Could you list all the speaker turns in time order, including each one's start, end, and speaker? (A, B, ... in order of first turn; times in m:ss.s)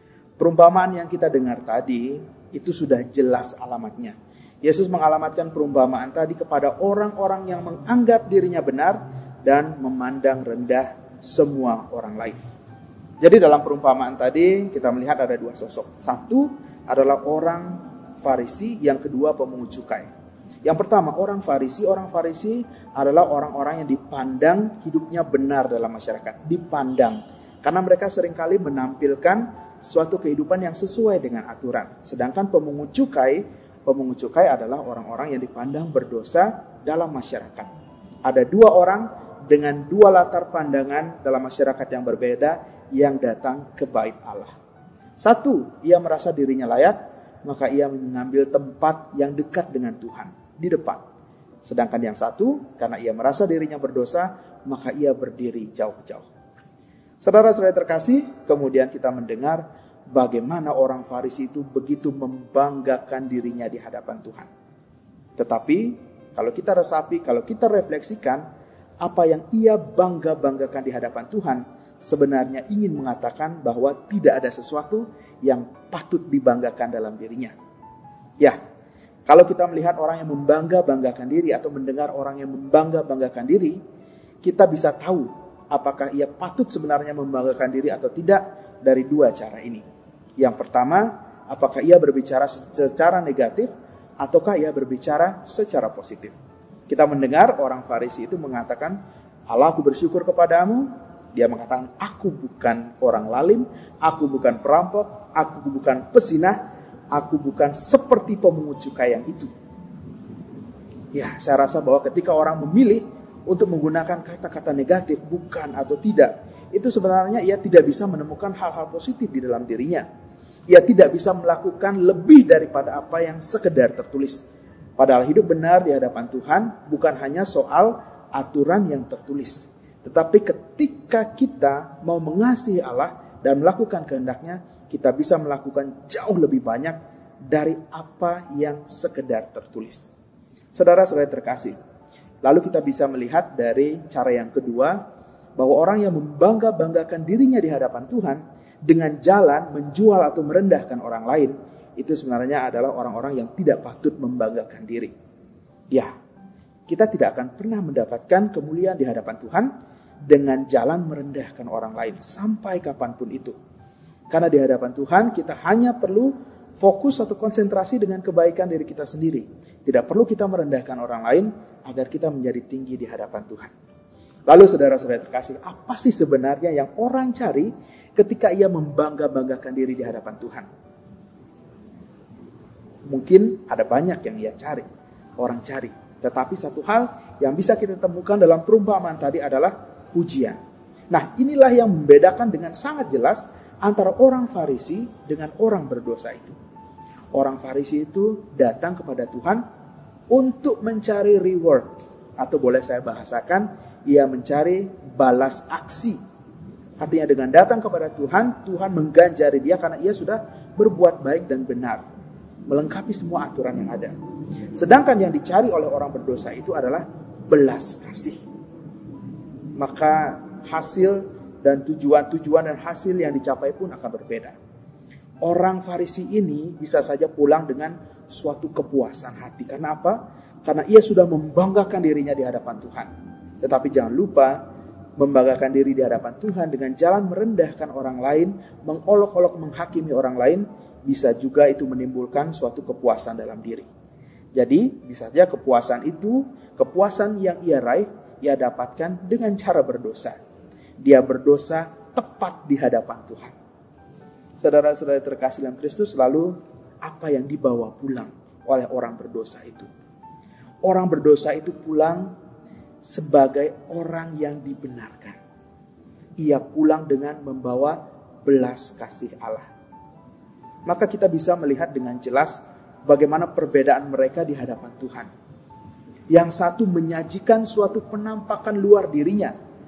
0:00.4-0:12.4 A
0:13.2-0:20.1 A
0:20.6-0:37.7 A
0:38.2-0:44.5 A
0:45.2-0:51.0 A
0:51.6-0:56.3 A
0:57.2-1:04.5 A
1:05.4-1:08.4 A
1:09.0-1:17.5 A
1:19.3-1:23.8 A
1:24.4-1:29.8 A
1:30.4-1:36.4 A
1:36.9-1:39.0 A
1:39.5-1:46.6 A
1:47.1-1:49.5 A
1:51.1-2:00.1 A
2:00.7-2:04.4 A
2:05.0-2:17.0 A
2:17.5-2:20.1 A
2:20.7-2:21.8 A
2:22.4-2:25.0 A
2:25.6-2:35.1 A
2:36.9-2:39.7 A
2:40.3-2:43.6 A
2:44.3-2:53.7 A
2:54.5-3:00.7 A
3:03.1-3:04.9 A
3:05.4-3:10.6 A
3:11.1-3:16.6 A
3:17.3-3:19.6 A
3:20.3-3:26.2 A
3:27.0-3:32.0 A
3:32.7-3:34.1 A
3:34.7-3:38.4 A
3:39.8-3:44.6 A
3:45.4-3:53.1 A
3:53.6-3:54.6 A
3:55.2-4:03.9 A
4:04.6-4:10.4 A
4:11.0-4:13.6 A
4:14.6-4:19.9 A
4:20.8-4:22.3 A
4:23.0-4:25.4 A
4:26.4-4:29.7 A
4:30.9-4:35.3 A
4:36.3-4:39.5 A